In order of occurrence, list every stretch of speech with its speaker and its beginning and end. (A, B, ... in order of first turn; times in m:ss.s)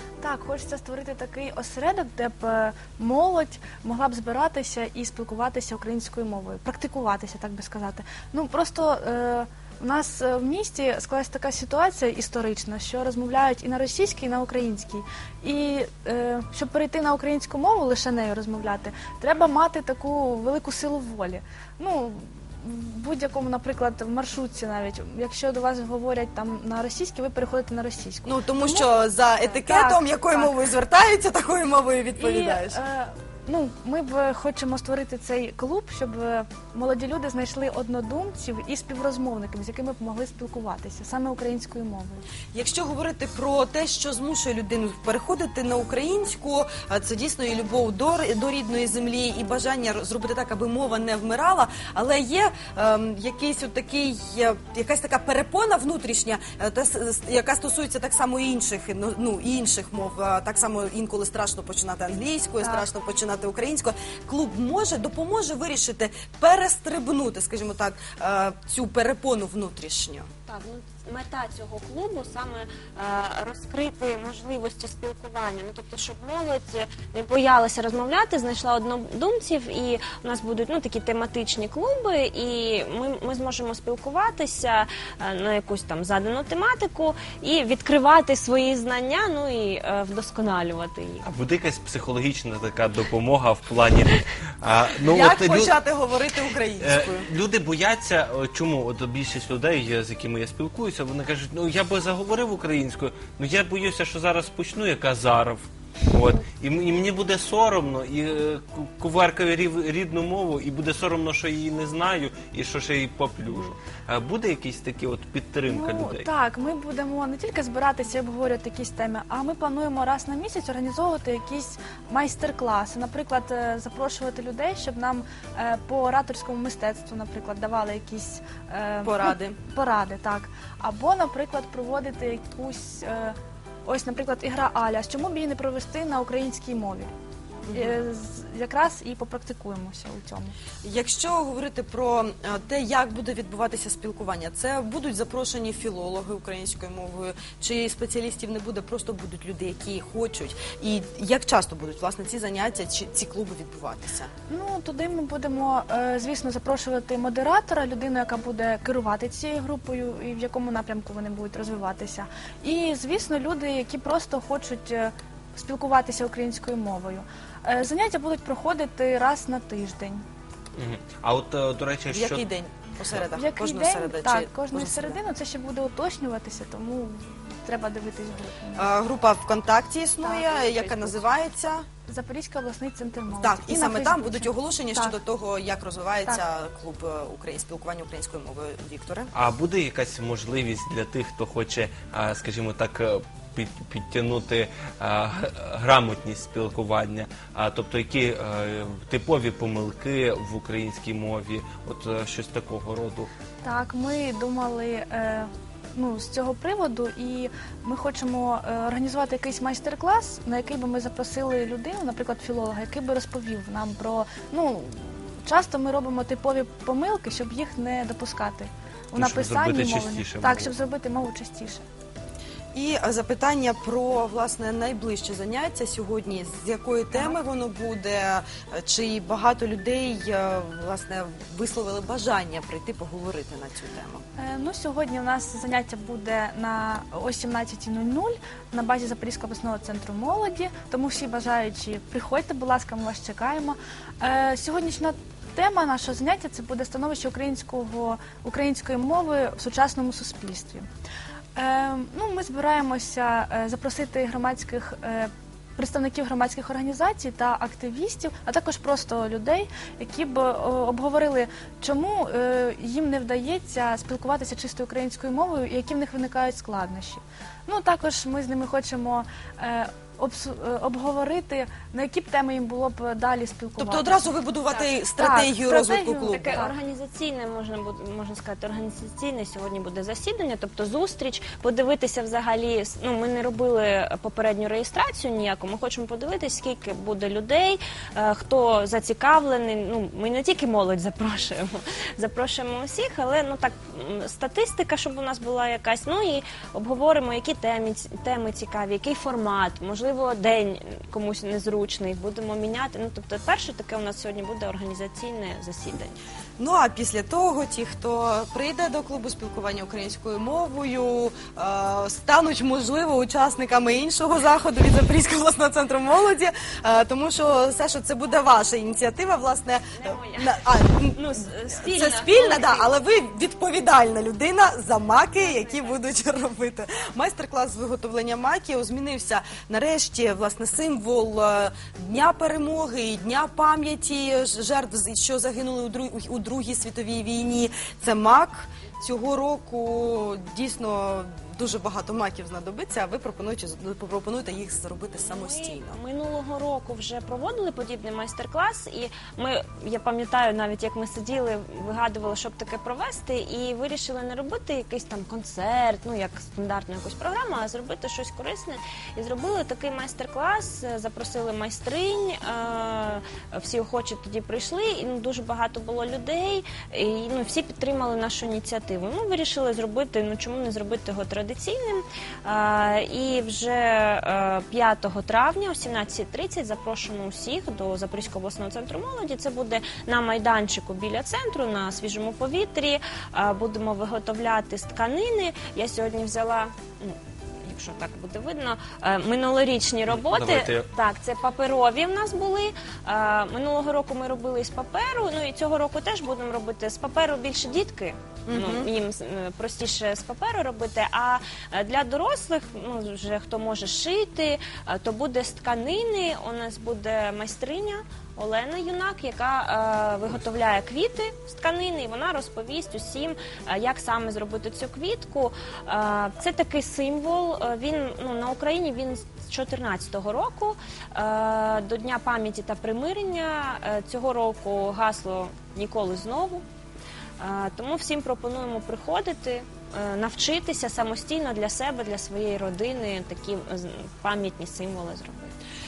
0:00.2-0:30.5 A
0:28.2-0:32.8 B
0:32.2-0:42.2 A
0:42.5-1:10.3 B
1:10.5-1:31.2 C
1:31.2-1:35.8 D
1:35.0-1:37.2 B
1:36.8-1:56.3 D
1:55.6-2:17.1 A
2:09.0-2:09.6 B
2:17.6-2:18.0 B
2:17.7-2:20.6 A
2:20.8-2:34.3 B
2:34.5-2:50.2 A
2:50.8-2:52.4 D
2:52.1-2:55.2 B
2:53.3-2:58.9 A
2:58.8-3:01.8 B
3:00.2-3:01.2 A
3:02.1-3:05.2 A
3:03.3-3:09.3 B
3:09.3-3:23.3 D
3:23.6-3:41.8 A
3:39.1-3:40.7 D
3:42.7-3:54.2 B
3:54.4-4:10.8 A
4:11.5-4:34.4 A
4:33.8-4:36.6 B
4:35.1-4:36.7 A
4:36.2-5:06.2 C
5:06.6-5:46.0 B
5:20.0-5:22.9 C
5:25.3-5:26.1 C
5:45.2-7:06.6 C
6:30.1-6:30.9 D
6:38.5-6:38.9 B
7:07.4-7:15.5 C